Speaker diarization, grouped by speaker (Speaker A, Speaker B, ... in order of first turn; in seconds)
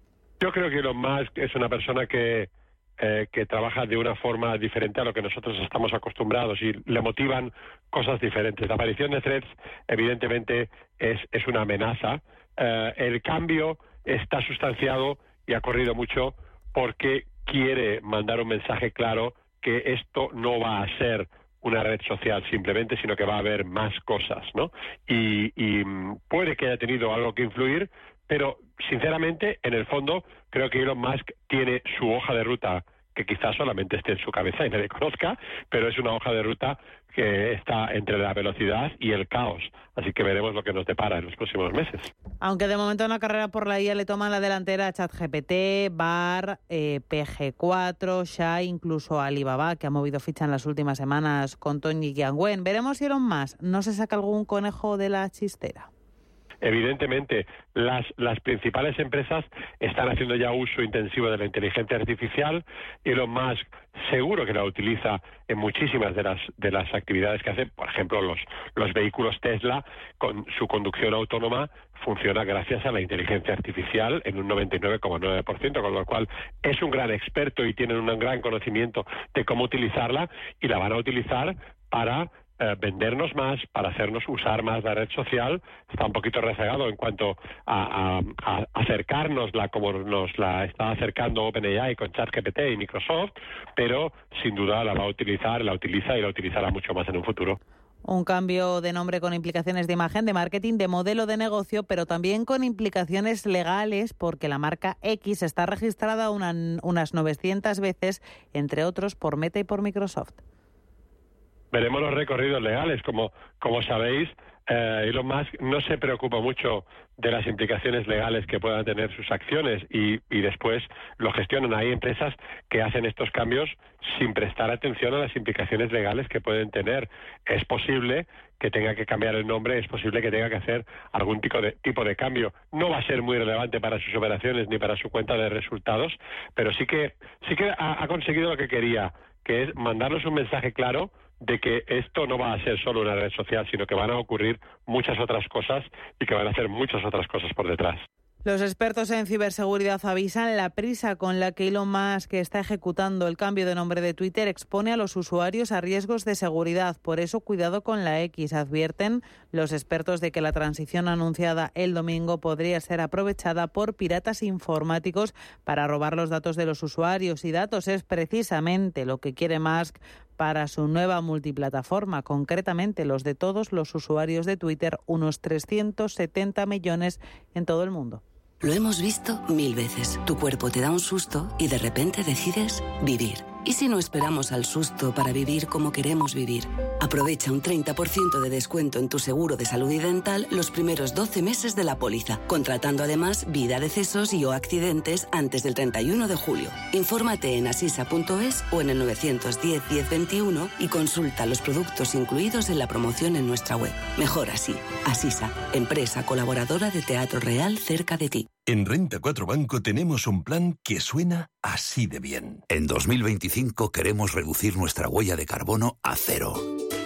Speaker A: 0.4-42.1, 56.6-97.6, 111.7-148.0
Speaker B: 42.4-55.9, 98.1-110.4, 148.4-178.2
Speaker C: 178.6-208.5
Speaker D: 208.7-212.7
Speaker E: 212.7-216.6